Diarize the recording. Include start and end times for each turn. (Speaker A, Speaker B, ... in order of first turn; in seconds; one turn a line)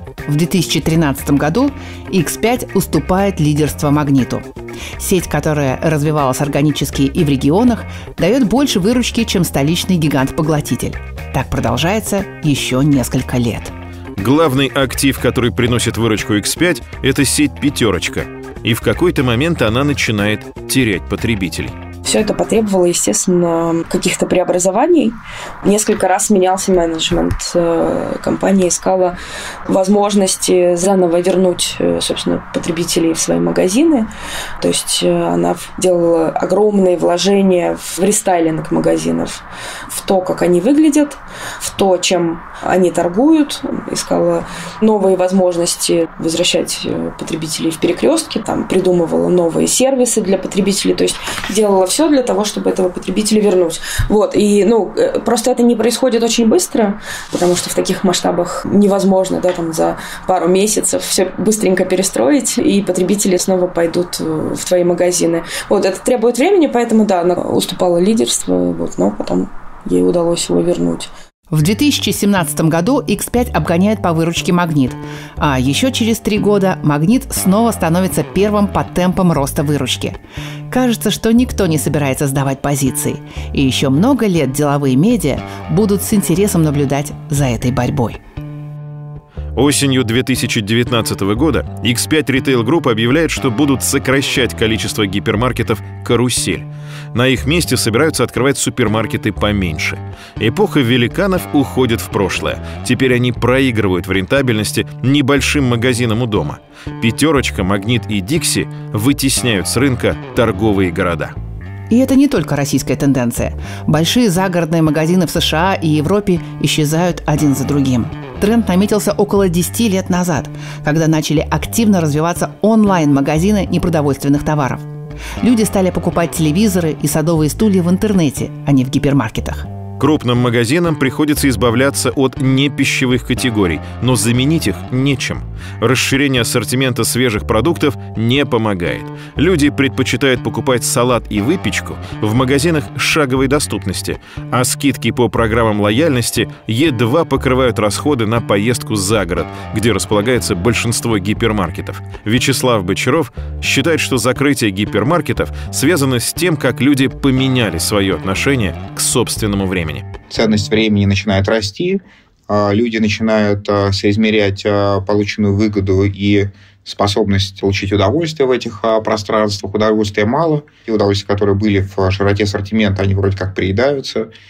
Speaker A: 0.3-4.5
Speaker A: 5.0-13.7
Speaker B: 14.2-21.8
Speaker C: 22.0-71.1
Speaker A: 71.5-80.2
Speaker A: 80.7-88.2
Speaker B: 89.6-111.3
Speaker A: 111.9-124.8
Speaker A: 125.4-129.7
Speaker B: 130.0-160.1
Speaker D: 160.3-174.3